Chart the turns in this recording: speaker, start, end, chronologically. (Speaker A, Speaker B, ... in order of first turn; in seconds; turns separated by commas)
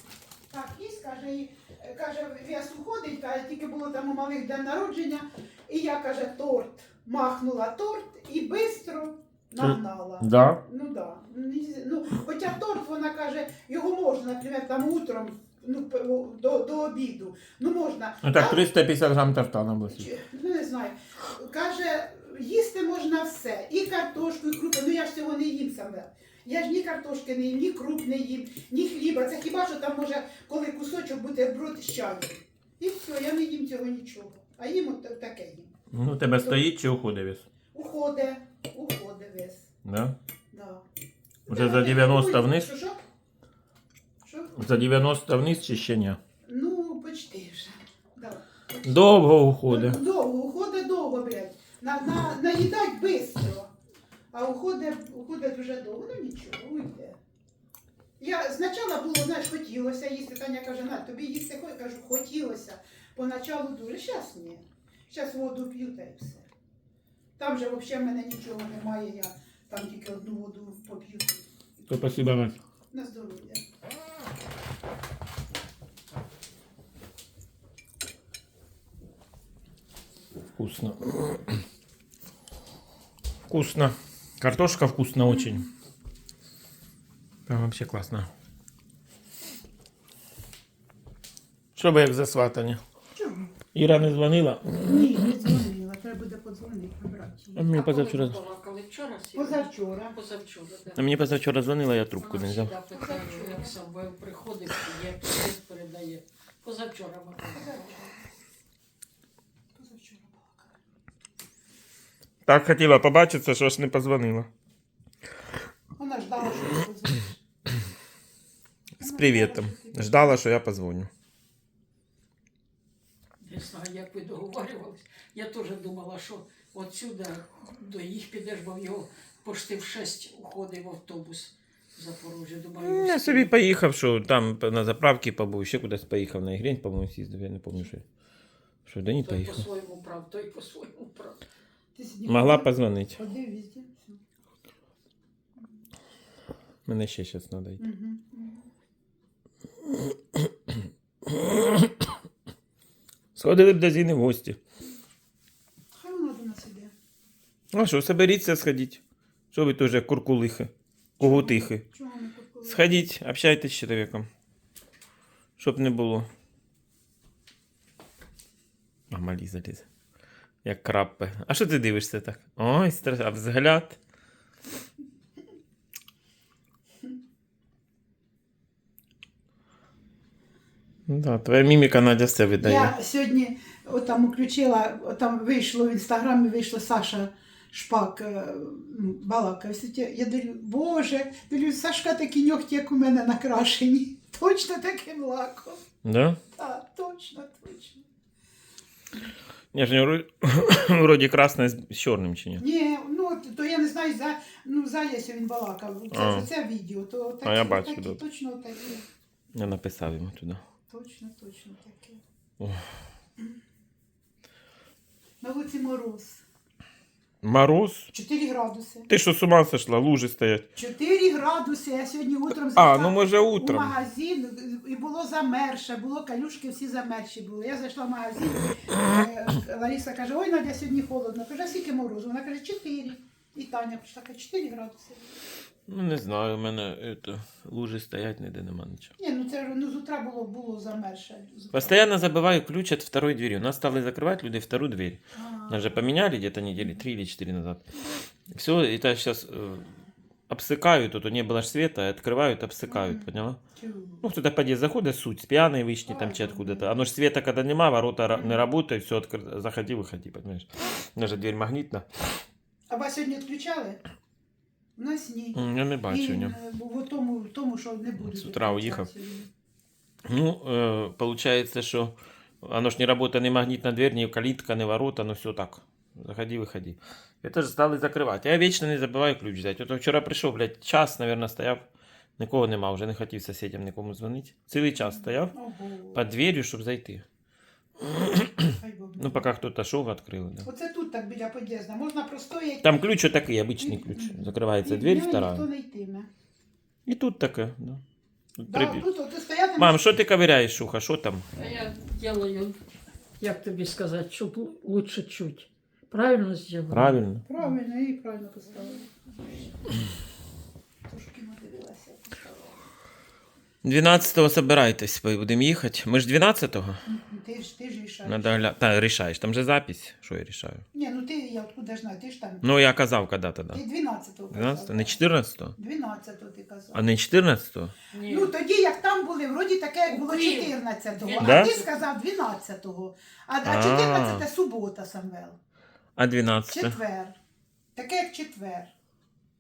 Speaker A: 0.5-18.7, Speaker B: 9.6-10.6, Speaker B: 18.2-20.1, Speaker A: 19.9-35.7, Speaker B: 35.9-37.4, Speaker A: 37.7-39.7, Speaker B: 39.8-40.1, Speaker A: 40.5-40.9, Speaker A: 41.5-43.0, Speaker B: 41.5-42.7, Speaker A: 44.2-44.5, Speaker B: 44.5-46.2, Speaker A: 46.5-53.7, Speaker B: 48.9-50.0, Speaker A: 54.3-57.2, Speaker A: 58.2-66.5, Speaker A: 67.4-72.3, Speaker B: 71.9-72.6, Speaker A: 72.9-73.6, Speaker B: 80.6-81.6, Speaker B: 83.5-85.7, Speaker A: 85.3-85.6, Speaker B: 87.5-88.3, Speaker B: 91.8-92.8, Speaker A: 93.1-93.5, Speaker B: 93.7-95.3, Speaker A: 94.8-97.7, Speaker B: 97.5-98.4, Speaker C: 97.7-101.1, Speaker A: 99.3-100.2, Speaker B: 101.0-102.7, Speaker C: 102.1-107.9, Speaker A: 102.9-103.8, Speaker A: 107.5-108.2, Speaker A: 109.8-110.7, Speaker B: 112.5-114.5, Speaker A: 116.0-117.4, Speaker B: 119.0-121.1, Speaker A: 119.0-120.3, Speaker C: 123.4-133.6, Speaker B: 132.8-138.0, Speaker B: 138.8-139.7, Speaker C: 139.2-141.4, Speaker A: 141.9-144.2, Speaker B: 142.3-143.2, Speaker B: 146.9-147.8, Speaker A: 147.8-148.7, Speaker B: 151.3-151.8, Speaker B: 153.4-154.6, Speaker A: 155.9-156.9, Speaker B: 157.7-159.0, Speaker B: 159.5-161.8, Speaker A: 161.2-163.1, Speaker B: 162.7-164.3, Speaker B: 165.6-166.3, Speaker B: 169.1-169.9, Speaker B: 170.6-174.0, Speaker B: 181.1-182.9, Speaker A: 182.6-195.8, Speaker B: 196.0-196.4, Speaker A: 196.6-198.0, Speaker B: 199.7-202.6, Speaker A: 202.6-209.0, Speaker B: 206.1-206.5, Speaker B: 207.4-208.2, Speaker B: 209.6-210.6, Speaker A: 210.9-212.2, Speaker A: 215.4-216.4, Speaker B: 217.4-218.1, Speaker A: 218.1-219.1, Speaker B: 219.1-220.7, Speaker A: 220.8-235.3, Speaker B: 222.8-223.9, Speaker B: 235.9-239.1, Speaker A: 239.2-242.0, Speaker B: 241.7-247.8, Speaker A: 245.3-246.0, Speaker B: 248.5-249.9, Speaker B: 250.5-253.6, Speaker A: 252.9-254.2, Speaker B: 254.2-262.1, Speaker A: 256.1-256.9, Speaker A: 258.3-258.6, Speaker A: 262.9-264.0, Speaker A: 265.0-269.5, Speaker B: 265.6-266.6, Speaker B: 268.2-269.1, Speaker B: 270.3-281.9, Speaker B: 282.4-285.5, Speaker A: 285.5-286.3, Speaker B: 286.1-287.2, Speaker B: 288.0-290.7, Speaker A: 288.8-289.5, Speaker A: 290.6-292.9, Speaker B: 292.8-295.7, Speaker A: 293.8-296.3, Speaker B: 297.1-298.0, Speaker B: 298.6-299.0, Speaker A: 298.7-300.0, Speaker B: 299.8-301.5, Speaker C: 301.6-302.8, Speaker C: 303.4-307.2, Speaker B: 306.9-307.4, Speaker A: 307.5-309.1, Speaker A: 311.1-312.7, Speaker B: 313.8-317.0, Speaker A: 317.1-318.6, Speaker B: 318.2-320.8, Speaker A: 320.9-322.6, Speaker B: 322.6-323.8, Speaker A: 323.7-325.2, Speaker B: 324.5-325.8, Speaker A: 325.8-327.0, Speaker B: 326.9-327.9, Speaker C: 328.1-328.5, Speaker A: 328.2-335.6, Speaker C: 330.0-331.9, Speaker B: 331.4-331.7, Speaker B: 333.6-334.4, Speaker B: 336.2-337.0, Speaker A: 336.7-337.4, Speaker A: 337.9-338.9